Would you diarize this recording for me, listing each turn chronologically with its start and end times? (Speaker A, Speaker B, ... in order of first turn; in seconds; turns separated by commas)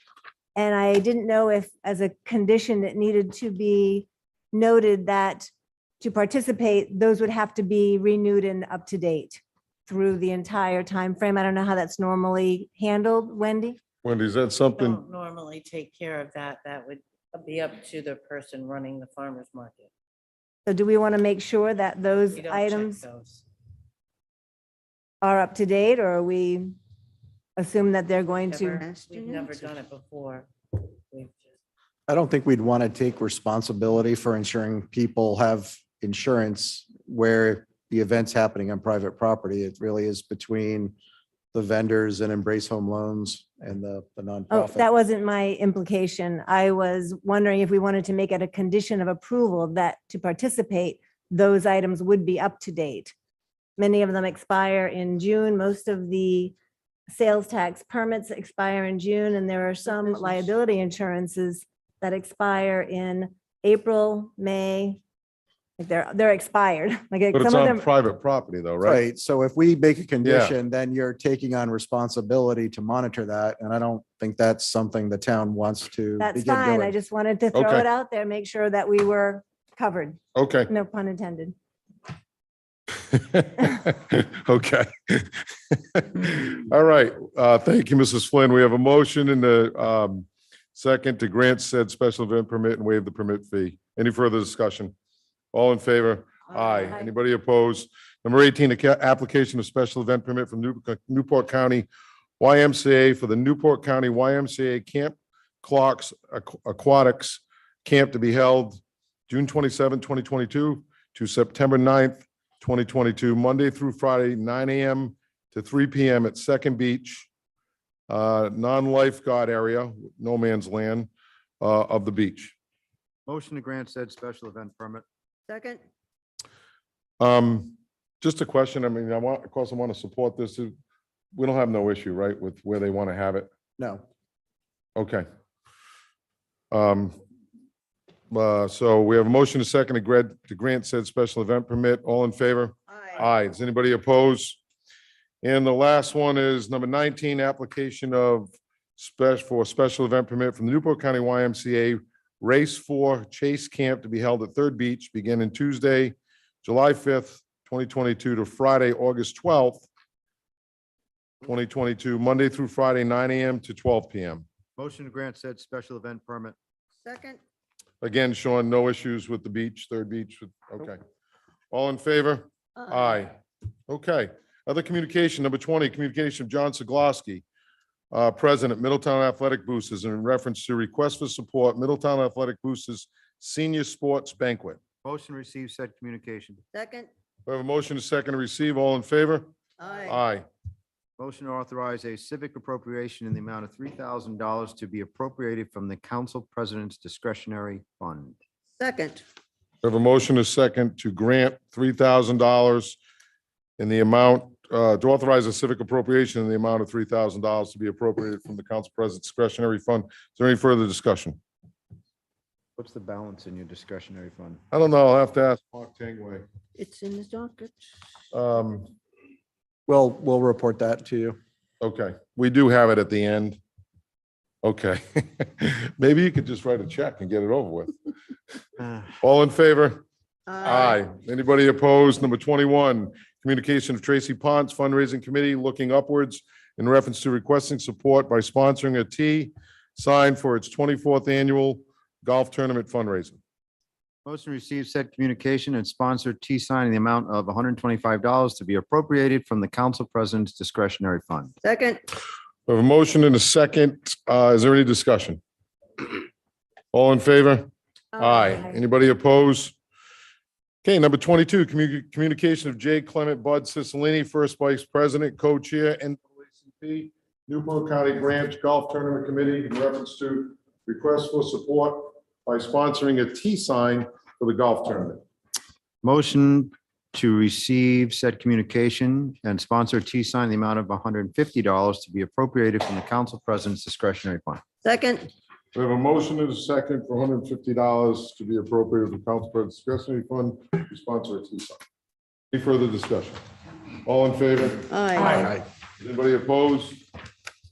Speaker A: 0.6-13.8, Speaker B: 14.0-15.0, Speaker C: 14.8-19.9, Speaker A: 20.7-23.0, Speaker C: 22.3-23.4, Speaker A: 25.2-26.8, Speaker A: 27.6-28.8, Speaker C: 28.5-31.5, Speaker D: 28.8-29.6, Speaker E: 32.1-41.0, Speaker E: 41.5-44.9, Speaker A: 44.5-53.1, Speaker A: 53.8-56.5, Speaker A: 57.1-65.0, Speaker A: 65.8-67.9, Speaker B: 67.3-69.0, Speaker E: 68.8-77.0, Speaker B: 70.2-70.5, Speaker A: 76.2-81.5, Speaker B: 77.5-77.9, Speaker B: 80.4-80.7, Speaker B: 83.1-94.9, Speaker B: 95.5-101.9, Speaker B: 102.4-117.3, Speaker B: 118.1-121.1, Speaker B: 121.6-122.5, Speaker F: 123.3-125.0, Speaker D: 125.5-125.8, Speaker B: 127.2-130.7, Speaker B: 131.3-133.5, Speaker E: 133.8-134.0, Speaker B: 135.0-135.2, Speaker B: 136.7-137.2, Speaker B: 138.3-144.6, Speaker B: 145.4-159.9, Speaker B: 161.4-164.4, Speaker F: 164.8-166.6, Speaker D: 167.0-167.4, Speaker B: 168.0-171.0, Speaker B: 171.7-173.3, Speaker D: 172.8-173.2, Speaker B: 173.9-177.4, Speaker B: 178.1-184.8, Speaker F: 185.0-186.6, Speaker D: 186.7-187.1, Speaker B: 187.5-189.5, Speaker D: 189.8-190.1, Speaker B: 190.0-190.4, Speaker F: 191.2-198.4, Speaker D: 198.8-199.2, Speaker B: 199.8-203.0, Speaker B: 203.8-211.4, Speaker F: 212.8-214.6, Speaker B: 214.7-216.5, Speaker D: 216.8-217.9, Speaker B: 218.3-218.9, Speaker E: 219.9-221.4, Speaker B: 221.8-223.6, Speaker B: 224.6-227.9, Speaker B: 229.2-230.0, Speaker D: 230.5-231.0, Speaker B: 230.6-243.4, Speaker F: 244.2-251.5, Speaker D: 251.6-252.0, Speaker B: 252.7-255.4, Speaker B: 256.9-259.8, Speaker D: 258.2-258.5, Speaker B: 260.8-275.2, Speaker F: 276.0-284.6, Speaker D: 284.8-285.3, Speaker B: 285.7-291.8, Speaker B: 292.5-293.4, Speaker B: 294.1-297.0, Speaker D: 294.9-295.6